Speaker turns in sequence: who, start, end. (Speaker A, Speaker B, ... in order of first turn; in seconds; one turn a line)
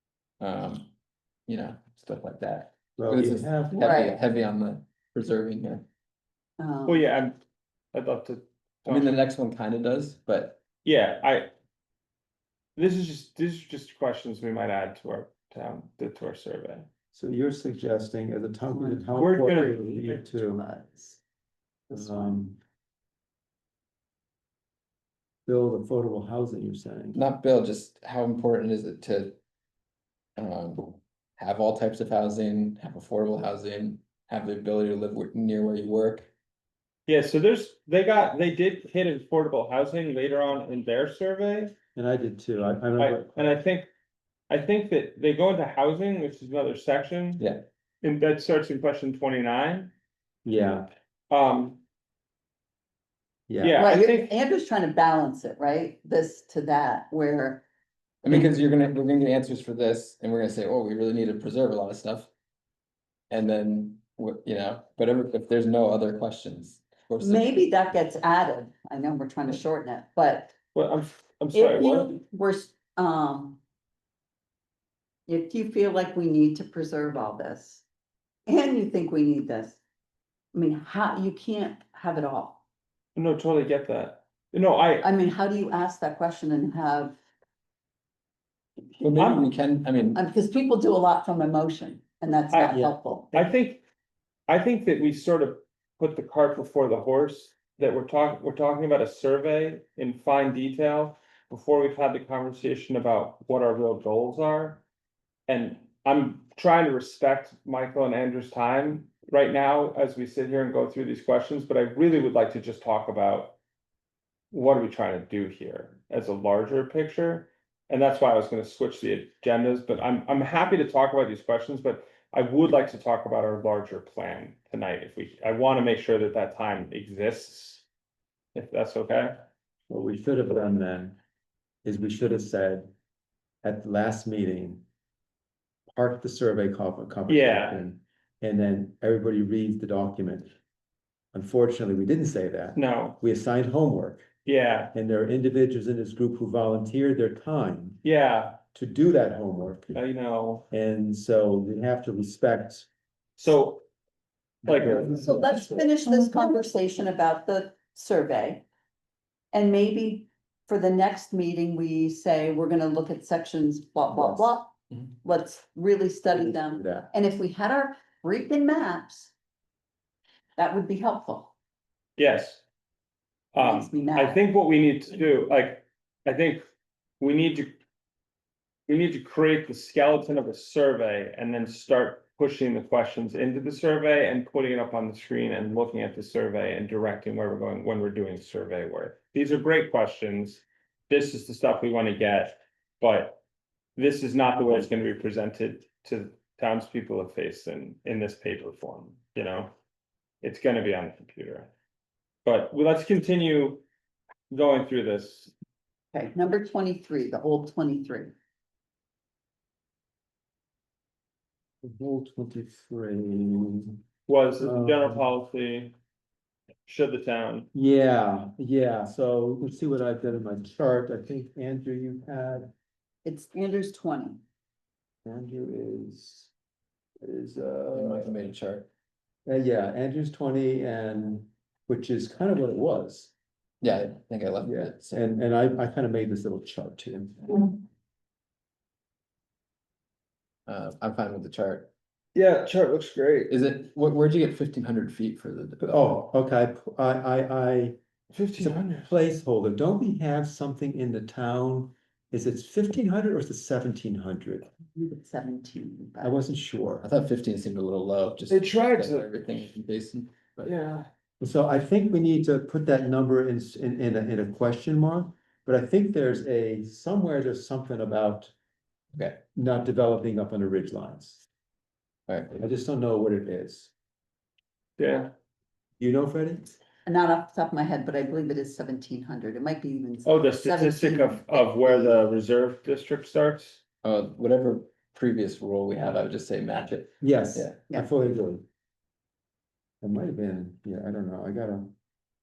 Speaker A: 0.4-0.9
Speaker A: 1.5-5.8
Speaker B: 3.0-3.9
Speaker C: 3.7-4.2
Speaker C: 6.6-7.0
Speaker D: 6.8-7.4
Speaker D: 7.9-9.1
Speaker A: 8.8-10.6
Speaker D: 10.8-11.5
Speaker D: 12.8-16.9
Speaker B: 17.1-20.6
Speaker C: 18.7-21.2
Speaker D: 19.1-19.8
Speaker C: 21.9-22.5
Speaker B: 21.9-22.6
Speaker B: 25.4-27.2
Speaker A: 27.1-29.4
Speaker A: 30.4-36.3
Speaker D: 37.1-41.7
Speaker B: 41.9-43.5
Speaker D: 43.0-43.9
Speaker D: 44.5-47.4
Speaker A: 47.4-47.6
Speaker D: 48.0-49.9
Speaker B: 50.4-50.9
Speaker D: 51.3-51.8
Speaker B: 53.5-53.8
Speaker D: 53.6-54.3
Speaker C: 53.8-57.6
Speaker A: 58.2-62.3
Speaker A: 63.3-67.7
Speaker C: 67.2-70.5
Speaker D: 70.7-72.1
Speaker C: 71.5-73.6
Speaker C: 75.3-77.8
Speaker C: 78.5-79.8
Speaker C: 80.5-82.6
Speaker D: 83.1-85.1
Speaker C: 85.0-87.2
Speaker A: 89.0-90.2
Speaker D: 89.2-89.5
Speaker C: 90.1-93.5
Speaker D: 92.5-93.8
Speaker D: 94.5-104.8
Speaker D: 105.5-113.6
Speaker D: 114.5-127.8
Speaker D: 128.5-129.5
Speaker B: 129.9-131.2
Speaker B: 131.8-132.9
Speaker B: 133.6-134.8
Speaker B: 135.9-140.5
Speaker D: 137.3-137.8
Speaker B: 141.3-144.3
Speaker D: 142.7-143.2
Speaker D: 144.4-144.9
Speaker B: 144.9-148.0
Speaker D: 148.0-148.6
Speaker B: 148.7-150.0
Speaker D: 149.9-150.7
Speaker B: 150.7-152.9
Speaker D: 153.4-153.8
Speaker D: 154.6-155.2
Speaker B: 154.7-155.4
Speaker C: 155.1-158.7
Speaker C: 159.5-169.3
Speaker B: 164.1-164.6
Speaker B: 166.3-167.1
Speaker C: 170.6-171.5
Speaker D: 172.2-172.6
Speaker D: 173.5-176.7
Speaker C: 173.6-174.4
Speaker D: 177.2-177.8
Speaker D: 178.9-193.4
Speaker D: 193.9-199.7
Speaker D: 200.4-201.7
Speaker D: 202.4-203.8
Speaker D: 204.5-205.5
Speaker C: 206.1-208.3
Speaker B: 211.8-214.0
Speaker D: 214.3-215.9
Speaker B: 214.6-215.2
Speaker D: 216.8-217.7
Speaker B: 217.7-222.7
Speaker C: 223.2-224.4
Speaker B: 225.2-226.5
Speaker B: 227.2-228.3
Speaker A: 227.9-228.9
Speaker B: 229.4-233.3
Speaker A: 233.8-235.2
Speaker B: 234.7-237.7
Speaker A: 240.7-241.9
Speaker D: 242.3-243.5
Speaker A: 243.5-246.0
Speaker B: 245.8-248.0
Speaker D: 248.3-249.1
Speaker B: 248.6-254.7
Speaker C: 254.9-256.4
Speaker B: 256.2-257.1
Speaker A: 257.0-260.7
Speaker D: 258.5-259.3
Speaker D: 260.6-261.1
Speaker B: 261.4-268.5
Speaker A: 269.1-269.4
Speaker B: 269.5-271.4
Speaker A: 272.3-272.6
Speaker B: 272.5-273.9
Speaker D: 275.0-275.3
Speaker B: 276.0-276.8
Speaker C: 277.1-282.2
Speaker D: 280.2-283.8
Speaker A: 284.0-287.8
Speaker B: 287.2-288.6
Speaker B: 290.0-291.9